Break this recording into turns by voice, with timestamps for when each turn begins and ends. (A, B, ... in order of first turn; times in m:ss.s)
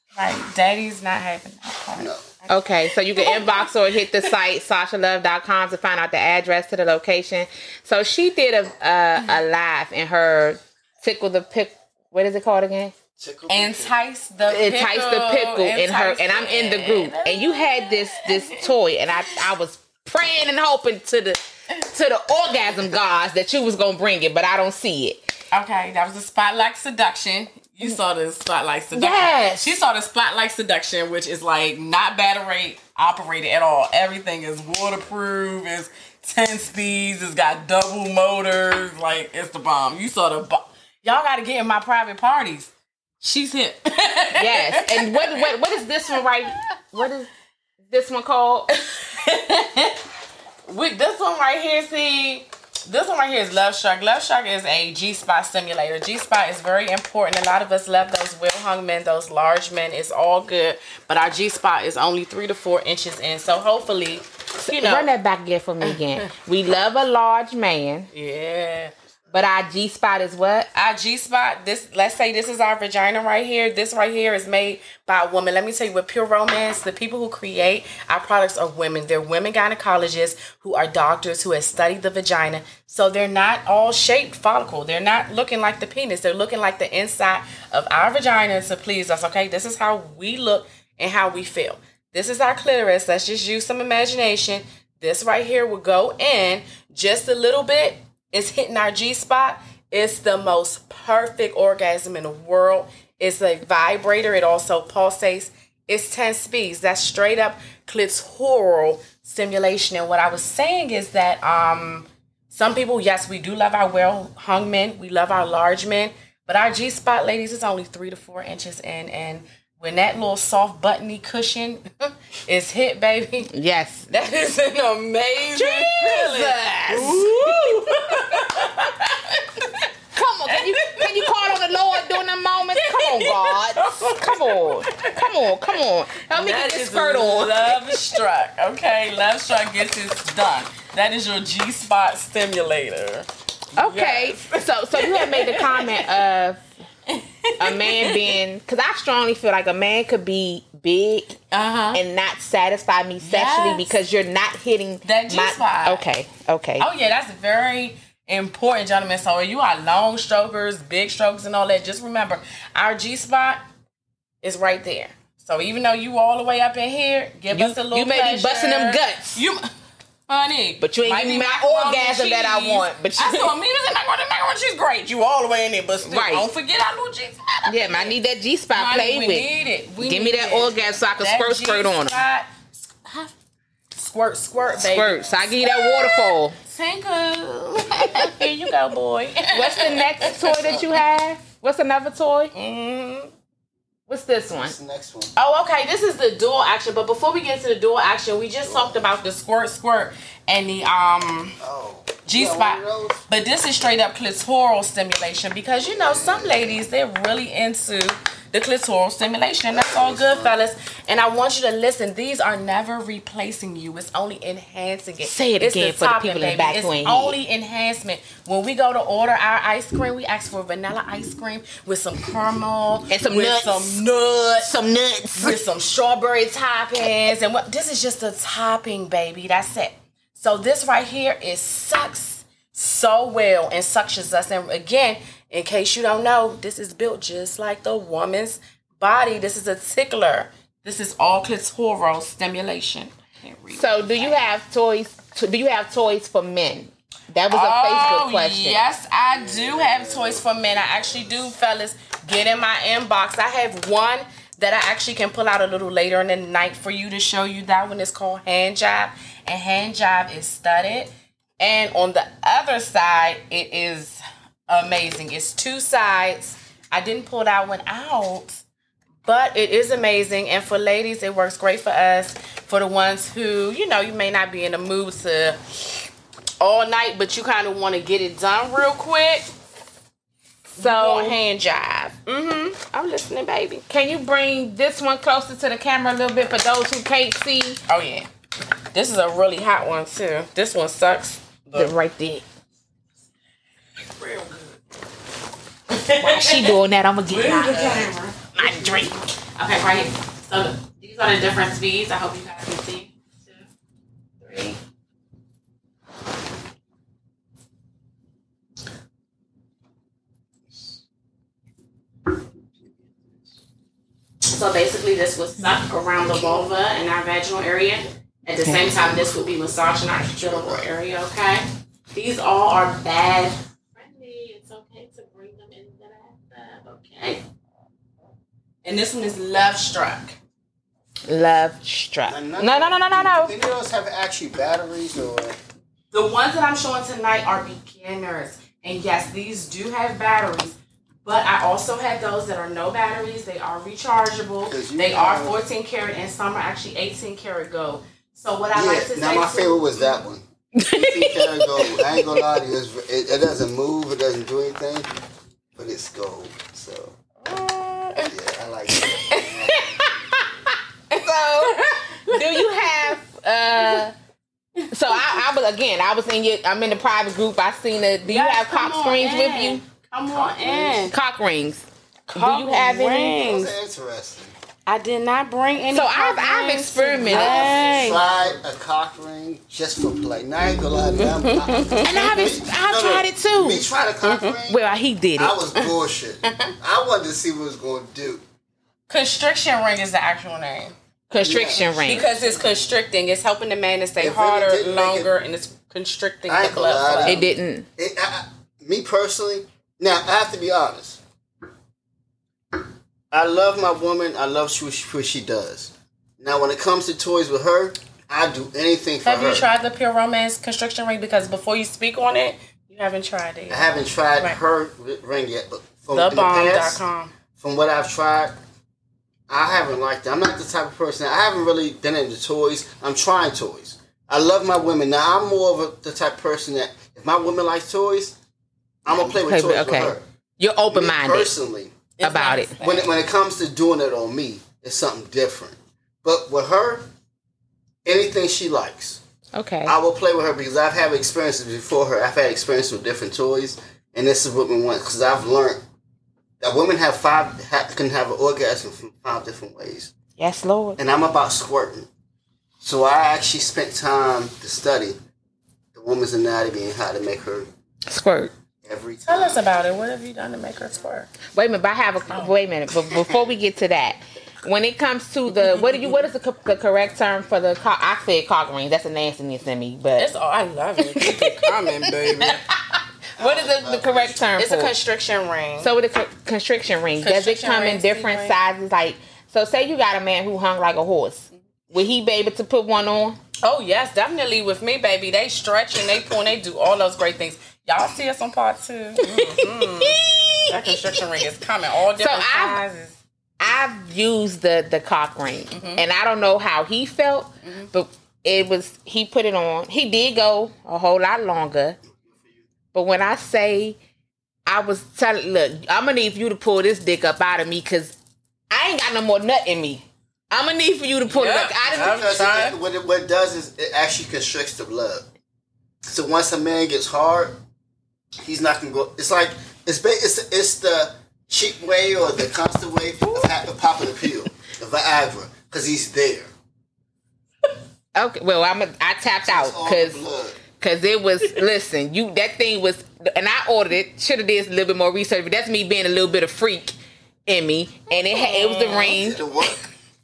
0:00.2-0:03.7 A
0:02.0-0:02.3 B
0:02.5-0:13.0 C
0:13.2-0:14.0 B
0:13.5-0:18.7 A
0:14.5-0:25.3 C
0:25.5-0:45.5 A
0:28.9-0:29.8 C
0:44.4-0:47.3 C
0:47.9-0:48.7 C
0:48.7-0:50.0 A
0:50.7-1:05.1 A
1:04.6-1:08.1 C
1:05.8-1:06.3 A
1:08.1-1:08.9 A
1:09.3-1:10.7 C
1:10.7-2:03.5 A
2:03.5-2:04.1 C
2:04.1-2:09.9 A
2:05.6-2:07.8 C
2:10.1-2:18.0 C
2:10.5-2:15.6 A
2:16.3-2:26.2 A
2:23.8-2:26.6 C
2:27.1-2:28.3 A
2:27.6-2:31.4 C
2:31.5-2:32.0 A
2:31.9-2:36.9 C
2:33.2-2:34.0 A
2:35.0-2:36.0 A
2:36.8-2:43.6 A
2:44.4-2:49.7 A
2:47.5-2:49.4 C
2:50.3-2:58.2 A
2:50.8-2:53.5 C
2:56.0-2:56.4 C
2:57.7-3:02.2 C
2:58.8-3:03.3 A
3:04.0-3:10.8 A
3:04.6-3:04.9 B
3:04.7-3:06.6 C
3:09.5-3:12.5 C
3:10.2-3:10.9 B
3:12.5-3:13.3 A
3:14.1-3:14.7 C
3:14.5-3:15.3 B
3:15.4-3:21.6 A
3:18.6-3:19.1 B
3:21.6-3:23.2 B
3:22.2-3:44.8 A
3:25.7-3:26.8 B
3:29.7-3:30.6 B
3:35.2-3:37.4 C
3:43.1-3:44.0 C
3:44.6-3:45.6 C
3:45.4-4:04.4 A
4:03.7-4:08.8 C
4:07.5-4:28.6 A
4:09.3-4:11.5 B
4:29.2-4:36.0 A
4:36.6-4:39.5 A
4:40.8-4:43.8 A
4:40.8-4:41.4 C
4:43.9-4:47.8 C
4:47.9-4:48.3 A
4:48.9-4:51.9 A
4:51.8-4:52.4 C
4:54.0-4:54.8 A
4:55.9-4:56.8 A
4:56.2-4:59.2 C
4:57.3-5:03.7 A
5:04.4-5:04.8 A
5:12.8-5:13.5 B
5:14.4-5:27.4 A
5:16.2-5:16.7 B
5:18.6-5:19.0 C
5:20.3-5:20.9 B
5:28.8-5:30.4 A
5:31.3-5:33.5 C
5:32.2-5:35.6 B
5:36.1-5:50.1 A
5:44.7-5:45.6 B
5:48.7-5:55.1 B
5:55.8-5:57.1 B
5:57.4-5:58.3 A
5:58.2-6:00.2 B
5:59.0-5:59.8 A
6:01.1-6:03.2 A
6:01.1-6:04.1 C
6:03.8-6:04.0 A
6:04.8-6:05.4 A
6:04.9-6:09.8 C
6:08.3-6:11.2 A
6:10.3-6:11.1 B
6:11.1-6:13.4 C
6:12.3-6:13.7 A
6:13.4-6:14.5 B
6:14.9-6:18.2 A
6:15.9-6:17.9 C
6:17.2-6:24.8 B
6:21.2-6:22.4 A
6:22.0-6:23.8 C
6:24.2-6:24.5 A
6:24.7-6:25.6 C
6:25.4-6:28.4 B
6:26.4-6:26.7 A
6:29.1-6:31.0 A
6:31.3-6:32.3 C
6:31.4-6:32.5 B
6:31.9-6:37.4 A
6:34.2-6:35.3 B
6:36.5-6:41.2 B
6:37.2-6:37.9 C
6:43.3-6:49.7 B
6:49.2-6:54.6 A
6:53.7-6:57.0 B
6:56.1-6:57.4 A
6:57.6-6:58.5 B
6:59.5-7:08.4 B
7:09.0-7:10.2 B
7:09.3-7:11.5 C
7:10.9-7:12.0 B
7:12.2-7:13.0 A
7:12.2-7:12.8 C
7:12.8-7:17.1 B
7:18.0-7:19.2 B
7:19.6-7:20.0 C
7:19.9-7:25.8 B
7:26.6-7:30.1 B
7:30.4-7:31.0 C
7:31.0-7:32.1 B
7:32.8-7:35.2 B
7:35.9-7:37.7 B
7:38.1-7:38.5 C
7:38.8-7:39.7 B
7:39.3-7:41.3 A
7:41.5-7:50.3 C
7:45.6-7:46.2 A
7:50.2-7:52.6 A
7:51.0-7:54.9 C
7:53.4-7:54.5 B
7:54.6-7:55.9 A
7:55.8-8:03.4 C
7:57.2-7:58.6 A
8:03.6-8:13.2 A
8:09.2-8:11.2 C
8:12.2-8:12.8 C
8:13.6-8:22.0 C
8:15.7-8:16.0 A
8:22.2-8:22.7 B
8:22.9-8:24.0 C
8:24.7-8:28.1 C
8:28.7-8:32.2 C
8:31.3-8:32.8 A
8:31.9-8:35.3 B
8:36.1-8:37.6 B
8:38.4-8:46.5 B
8:48.2-8:50.2 C
8:49.5-8:50.6 B
8:50.8-8:56.9 C
8:57.5-8:59.4 C
8:58.2-8:59.2 A
8:59.0-8:59.9 B